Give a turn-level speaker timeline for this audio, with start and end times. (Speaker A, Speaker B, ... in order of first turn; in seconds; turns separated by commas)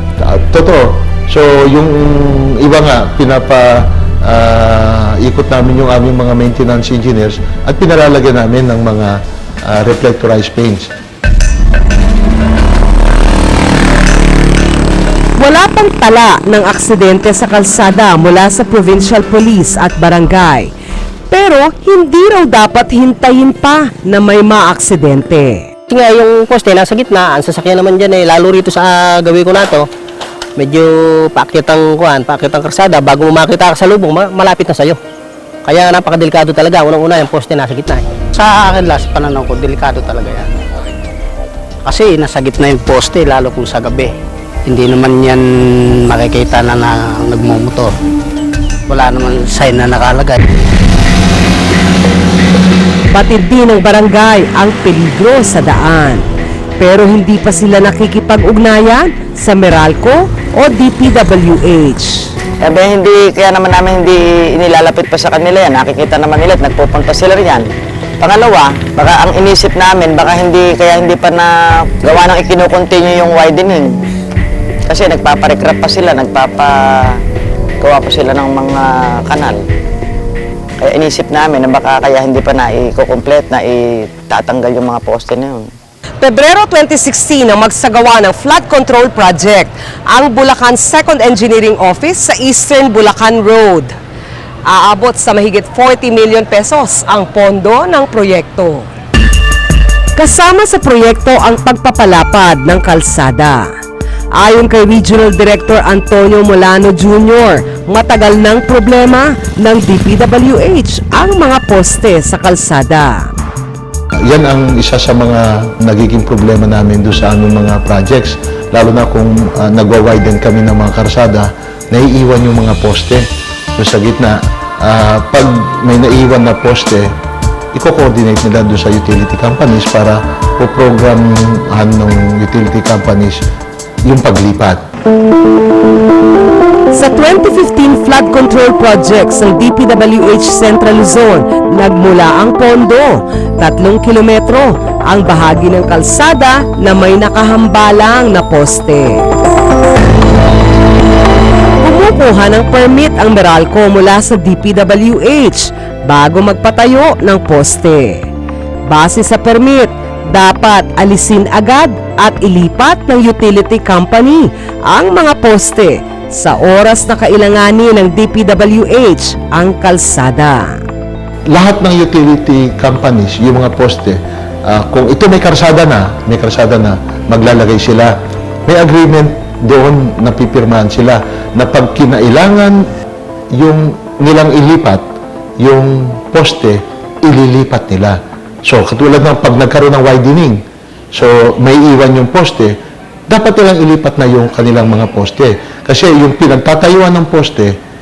Speaker A: 0.2-10.9, Speaker B: 15.4-20.7, Speaker B: 21.3-25.7, Speaker C: 25.9-29.9, Speaker C: 30.6-35.0, Speaker C: 35.6-38.1, Speaker D: 38.3-40.5, Speaker D: 41.9-44.1, Speaker D: 44.7-45.4, Speaker D: 46.1-48.0, Speaker D: 48.9-50.4, Speaker B: 53.1-56.2, Speaker B: 56.8-62.3, Speaker E: 62.6-67.7, Speaker E: 68.2-73.9, Speaker E: 74.9-77.2, Speaker E: 77.8-79.7, Speaker E: 80.8-85.7, Speaker B: 86.2-93.9, Speaker B: 94.7-98.9, Speaker B: 100.2-103.7, Speaker B: 104.3-113.3, Speaker A: 114.3-127.1, Speaker A: 127.7-133.4, Speaker A: 134.1-134.8, Speaker B: 136.9-149.2, Speaker B: 151.8-158.2, Speaker B: 158.9-170.8, Speaker A: 171.5-178.1, Speaker A: 178.7-182.8, Speaker A: 183.5-185.0, Speaker A: 185.6-192.7, Speaker A: 193.3-197.7